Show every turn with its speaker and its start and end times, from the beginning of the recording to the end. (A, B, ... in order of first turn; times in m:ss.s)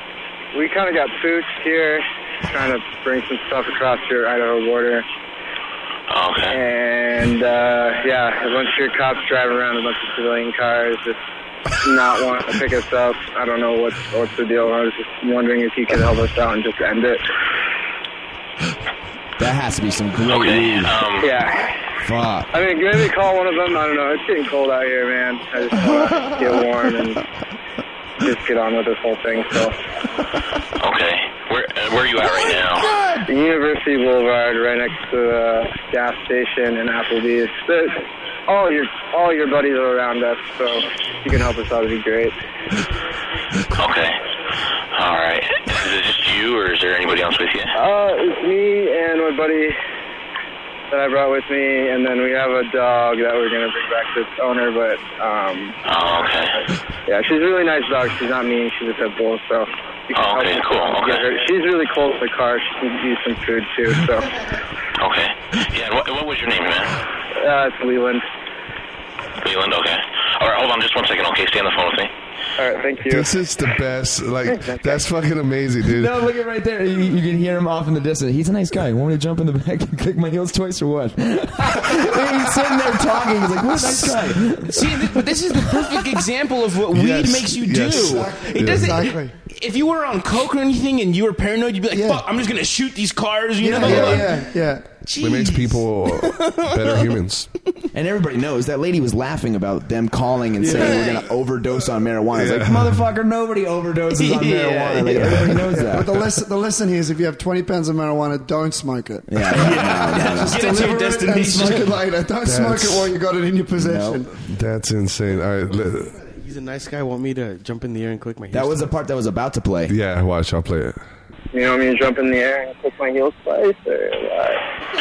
0:00.5-0:05.0 A
0:06.1-0:06.6 B
0:06.5-0:11.2 A
0:11.8-0:17.2 A
0:19.4-0:21.0 C
0:20.2-0:21.3 B
0:21.2-0:21.7 A
0:22.0-0:22.5 C
0:22.5-0:27.2 A
0:28.2-0:29.7 A
0:30.8-0:32.9 B
0:33.2-0:42.3 A
0:43.8-0:44.2 B
0:44.9-0:47.7 B
0:47.7-0:49.7 A
0:50.9-0:55.8 A
0:55.8-0:56.6 B
0:57.0-1:04.3 A
1:00.1-1:01.2 B
1:05.0-1:07.0 B
1:07.4-1:08.2 A
1:09.4-1:12.1 B
1:12.6-1:13.2 A
1:13.1-1:16.1 D
1:14.5-1:15.0 A
1:15.9-1:24.9 C
1:24.6-1:34.4 E
1:26.9-1:28.9 D
1:27.9-1:29.3 F
1:31.9-1:32.2 F
1:33.6-1:34.8 F
1:33.8-1:34.2 D
1:35.0-1:37.0 E
1:35.2-1:37.5 D
1:37.9-1:46.1 C
1:40.6-1:41.1 F
1:42.3-1:43.0 D
1:44.1-1:45.5 E
1:45.2-1:54.3 F
1:49.3-1:50.6 C
1:49.5-1:52.0 E
1:52.4-1:53.1 D
1:53.8-1:54.2 C
1:54.5-1:56.1 D
1:56.2-1:58.9 G
1:58.5-1:59.9 C
1:59.9-2:01.0 D
2:01.5-2:04.6 A